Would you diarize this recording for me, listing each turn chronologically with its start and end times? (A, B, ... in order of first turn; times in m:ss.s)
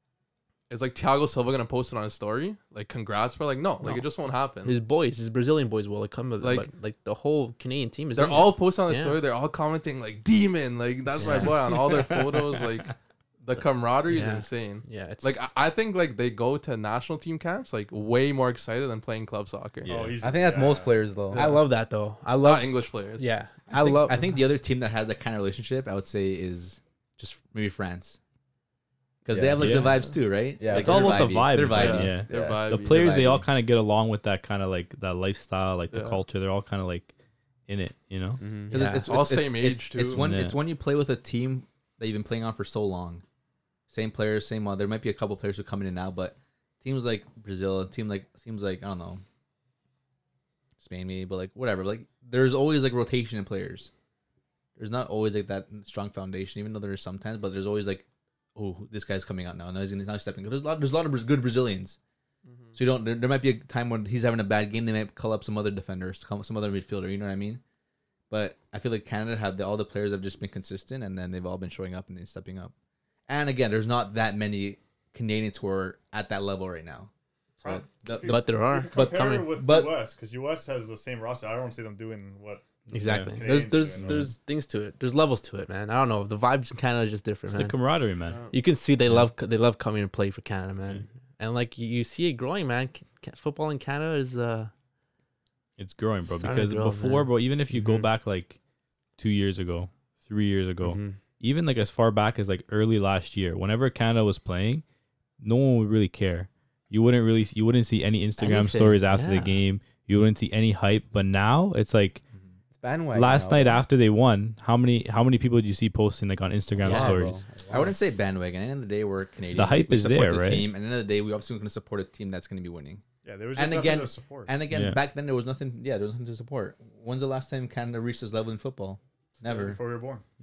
0:00.7-0:04.8 A
0:04.6-0:09.2 B
0:06.4-0:06.7 A
0:08.2-0:20.0 A
0:11.2-0:11.6 B
0:14.1-0:15.5 B
0:19.9-0:21.0 C
0:20.2-0:21.5 D
0:21.3-0:21.6 A
0:21.3-0:24.2 B
0:22.4-0:23.2 A
0:23.7-0:28.2 E
0:29.2-0:32.2 E
0:29.3-0:29.8 D
0:29.6-0:30.0 F
0:30.6-0:31.5 D
0:30.7-0:37.1 F
0:31.7-0:33.1 A
0:32.2-0:32.7 D
0:32.8-0:33.5 E
0:35.9-0:36.2 A
0:37.7-0:38.4 F
0:38.4-0:38.8 D
0:38.7-0:43.2 E
0:38.7-0:39.0 B
0:38.8-0:40.2 A
0:40.1-0:40.6 F
0:43.9-0:49.2 E
0:50.8-0:53.9 E
0:54.8-1:02.0 E
1:02.5-1:02.8 A
1:02.8-1:07.6 E
1:08.3-1:12.7 E
1:13.3-1:17.1 E
1:17.6-1:22.7 C
1:17.6-1:20.0 E
1:18.2-1:19.5 B
1:22.9-1:27.8 B
1:22.9-1:24.3 F
1:23.3-1:24.2 C
1:27.5-1:28.4 F
1:28.3-1:28.5 A
1:28.5-1:34.7 B
1:35.8-1:38.6 F
1:36.2-1:38.1 B
1:39.2-1:44.8 F
1:40.8-1:41.2 B
1:45.4-1:52.2 F
1:48.4-1:49.6 B
1:52.7-1:53.8 D
1:53.1-1:57.5 F
1:56.8-1:57.9 D
1:56.8-1:57.9 B
1:57.7-2:03.0 E
1:59.5-2:00.7 F
2:03.2-2:04.6 C
2:03.6-2:09.8 E
2:04.7-2:05.0 F
2:09.4-2:10.2 C